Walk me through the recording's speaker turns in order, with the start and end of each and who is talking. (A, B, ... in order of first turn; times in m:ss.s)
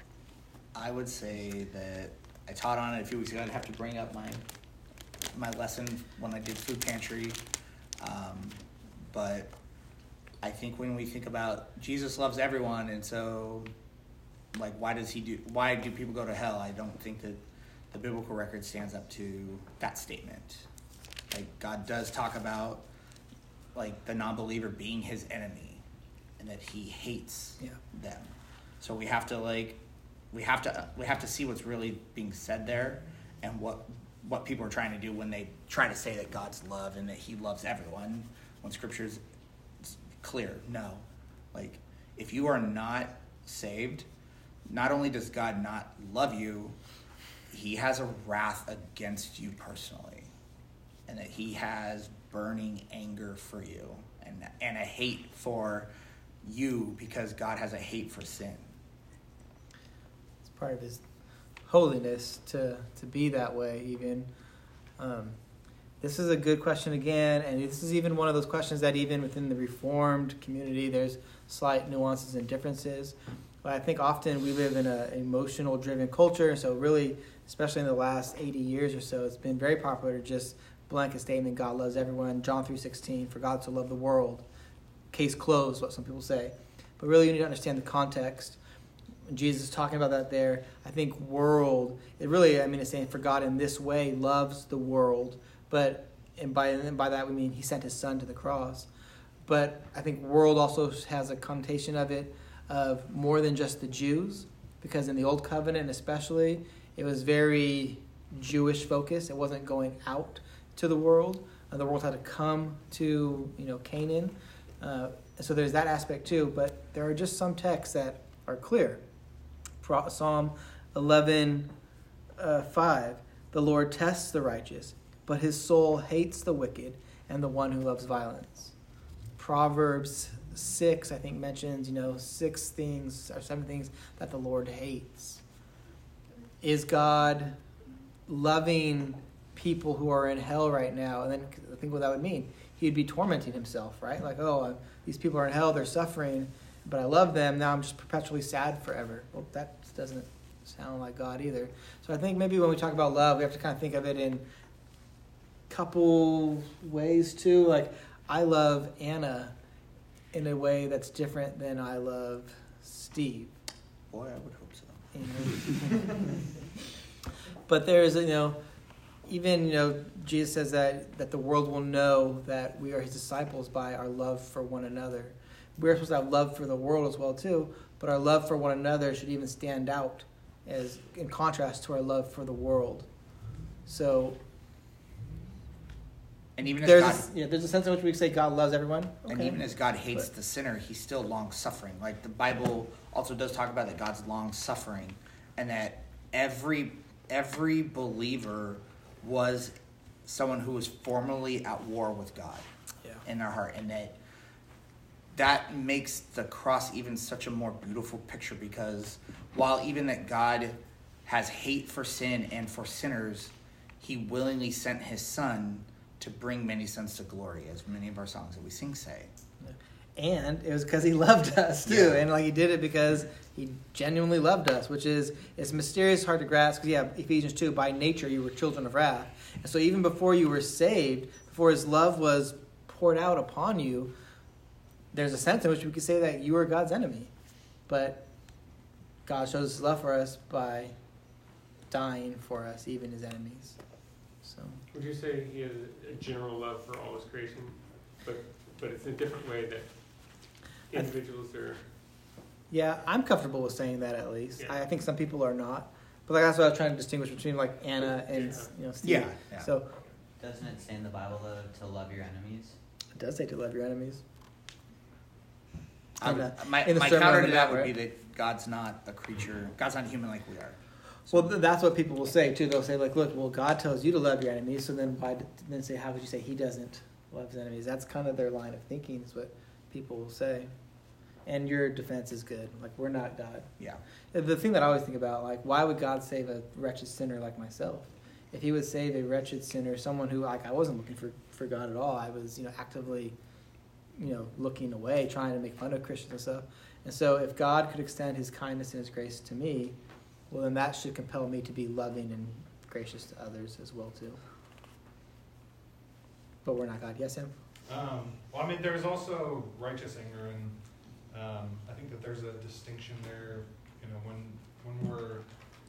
0:00.7-0:04.4 A
0:05.3-0:07.4 A
0:08.0-0:09.5 A
0:10.4-0:13.7 A
0:14.5-0:20.7 A
0:21.3-0:22.9 A
0:23.7-0:25.8 A
0:26.4-0:29.8 A
0:30.3-0:39.2 A
0:39.8-0:44.1 A
0:44.7-0:46.8 A
0:47.5-0:50.3 A
0:51.1-0:55.9 A
0:56.4-0:58.7 A
1:00.5-1:01.0 B
1:01.7-1:04.3 B
1:05.0-1:05.4 B
1:06.0-1:24.4 B
1:25.1-1:28.6 B
1:29.3-1:38.9 B
1:39.5-1:59.0 B
1:59.8-2:01.7 B
2:02.4-2:08.7 B
2:09.4-2:15.4 B
2:16.6-2:17.6 B
2:18.3-2:34.4 B
2:35.7-2:39.5 B
2:40.3-2:43.5 B
2:44.1-2:45.0 A
2:45.1-2:46.4 B
2:47.7-2:48.6 B
2:49.3-3:03.1 B
3:03.9-3:04.4 B
3:06.6-3:07.3 A
3:06.7-3:09.6 B
3:09.3-3:22.7 A
3:23.2-3:24.2 A
3:25.3-3:39.3 A
3:39.6-3:54.1 B
3:41.9-3:42.2 A
3:55.1-3:57.3 B
3:57.9-3:58.3 B
3:59.3-4:01.0 B
4:01.9-4:03.8 B
4:04.4-4:04.8 B
4:04.9-4:11.8 C
4:12.7-4:19.9 B
4:18.3-4:18.7 C
4:19.0-4:19.7 A
4:20.4-4:22.8 D
4:23.2-4:24.2 B
4:26.2-4:31.5 A
4:26.2-4:27.9 B
4:31.3-4:40.7 B
4:41.4-4:43.7 B
4:44.3-4:53.4 B
4:54.2-5:00.0 B
5:00.5-5:04.4 B
5:06.6-5:07.5 B
5:07.9-5:15.5 E